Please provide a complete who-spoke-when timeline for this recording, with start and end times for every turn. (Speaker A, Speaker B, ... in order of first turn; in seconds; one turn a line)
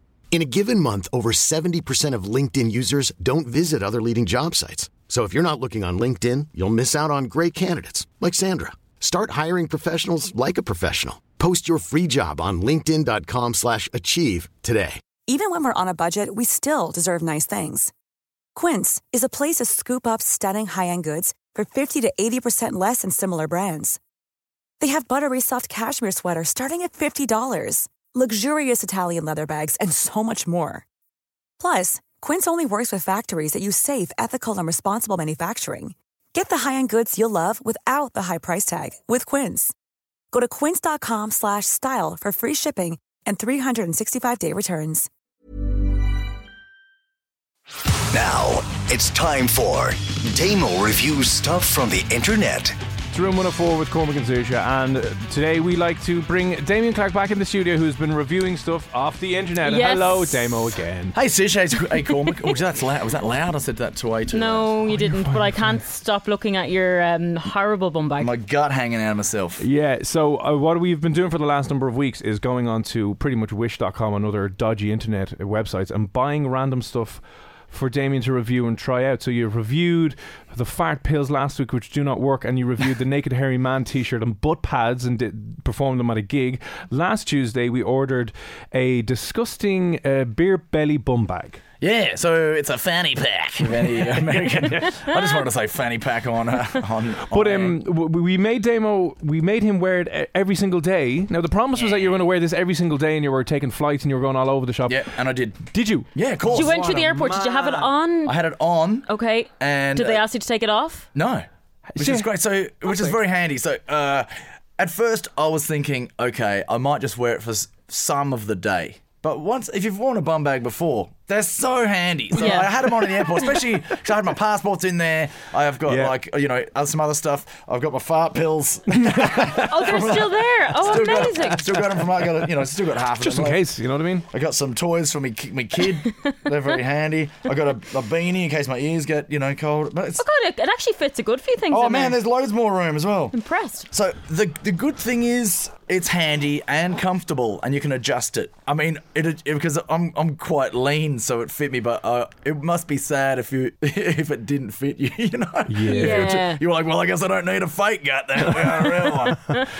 Speaker A: 0.3-15.0
Speaker B: 15.3-17.9
Speaker B: 18.6-24.0
Speaker B: 24.8-30.8
Speaker B: 31.6-39.7
Speaker B: 40.3-45.1
Speaker C: 48.1-52.7
Speaker D: 53.1-61.1
Speaker E: 59.6-60.7
Speaker F: 61.1-64.7
Speaker E: 64.3-68.3
Speaker D: 65.0-65.4
Speaker F: 68.2-69.6
Speaker D: 69.6-91.6
Speaker F: 91.8-97.8
Speaker D: 97.3-105.1
Speaker F: 104.9-107.1
Speaker D: 105.7-107.9
Speaker E: 106.5-108.4
Speaker F: 108.3-110.2
Speaker E: 109.1-111.1
Speaker F: 111.1-111.5
Speaker D: 111.9-112.3
Speaker F: 112.0-133.7
Speaker E: 122.3-123.6
Speaker D: 125.9-126.2
Speaker E: 129.4-131.8
Speaker D: 133.2-134.2
Speaker F: 134.3-140.2
Speaker E: 140.2-142.2
Speaker F: 141.7-143.4
Speaker E: 143.3-143.9
Speaker F: 143.9-159.5
Speaker D: 155.7-156.3
Speaker E: 155.9-156.6